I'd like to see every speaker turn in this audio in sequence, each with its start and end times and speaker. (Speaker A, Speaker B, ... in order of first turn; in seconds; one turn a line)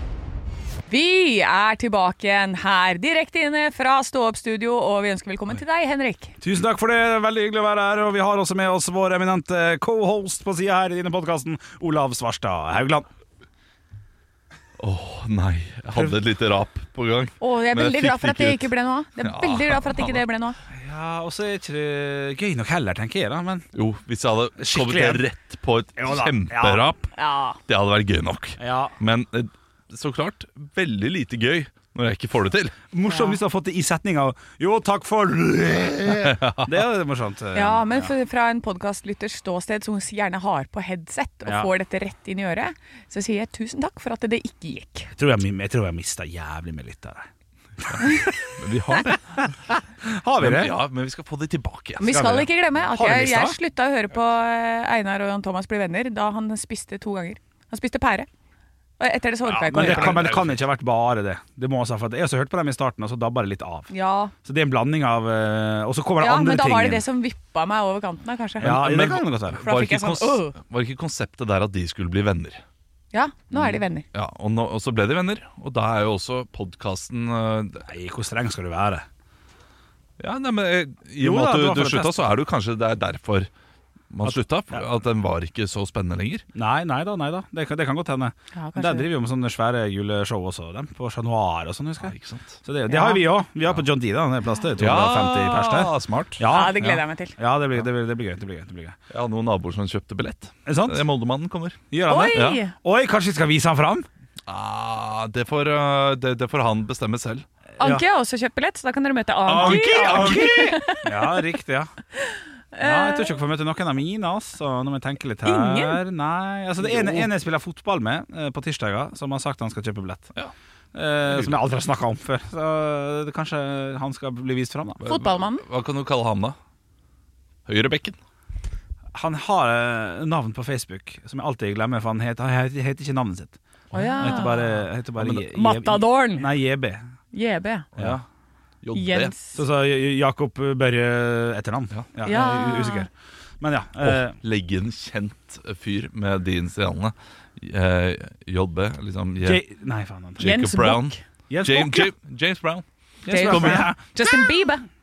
Speaker A: 0.9-6.3
Speaker B: 6.4-13.1
Speaker C: 14.8-20.2
Speaker A: 17.4-20.6
Speaker B: 20.7-23.7
Speaker C: 23.7-27.1
Speaker B: 24.6-25.2
Speaker B: 26.0-26.9
Speaker A: 27.2-27.6
Speaker C: 27.7-32.8
Speaker B: 28.6-28.9
Speaker B: 32.9-38.1
Speaker A: 33.1-33.4
Speaker C: 36.3-36.7
Speaker A: 37.5-45.1
Speaker B: 41.4-41.7
Speaker B: 45.2-47.3
Speaker B: 47.8-48.5
Speaker C: 47.9-49.5
Speaker B: 49.1-50.7
Speaker C: 50.4-52.2
Speaker A: 52.0-58.3
Speaker B: 52.0-53.6
Speaker A: 59.0-60.4
Speaker C: 59.4-60.6
Speaker B: 59.7-63.9
Speaker A: 63.9-64.3
Speaker B: 64.4-67.0
Speaker A: 66.2-68.8
Speaker B: 68.6-69.6
Speaker C: 68.6-72.6
Speaker A: 69.6-70.5
Speaker A: 73.1-74.0
Speaker C: 74.1-77.9
Speaker B: 77.9-79.0
Speaker C: 80.2-83.5
Speaker B: 81.2-82.3
Speaker C: 84.1-86.4
Speaker B: 84.2-84.8
Speaker B: 86.5-99.0
Speaker A: 88.5-89.1
Speaker C: 92.0-92.6
Speaker A: 92.9-93.2
Speaker C: 94.8-96.5
Speaker A: 96.5-97.3
Speaker C: 99.1-102.6
Speaker B: 100.7-101.0
Speaker B: 101.9-104.1
Speaker A: 102.1-102.7
Speaker C: 104.5-107.4
Speaker B: 107.8-108.0
Speaker A: 107.8-111.3
Speaker C: 109.4-110.8
Speaker B: 109.5-111.9
Speaker A: 112.3-113.3
Speaker B: 112.8-120.3
Speaker A: 115.4-116.0
Speaker B: 120.9-125.0
Speaker C: 125.0-126.5
Speaker A: 125.0-125.6
Speaker C: 127.7-128.2
Speaker B: 129.1-133.6
Speaker C: 133.9-134.6
Speaker A: 133.9-134.8
Speaker B: 134.2-137.0
Speaker A: 135.3-136.5
Speaker A: 137.3-137.9
Speaker C: 137.9-138.2
Speaker C: 138.8-139.3
Speaker A: 138.9-139.6
Speaker B: 139.6-144.4
Speaker A: 142.2-143.1
Speaker C: 144.0-149.6
Speaker B: 149.4-150.5
Speaker C: 150.4-153.9
Speaker A: 150.4-151.2
Speaker B: 151.5-152.1
Speaker B: 153.2-154.0
Speaker A: 153.3-154.9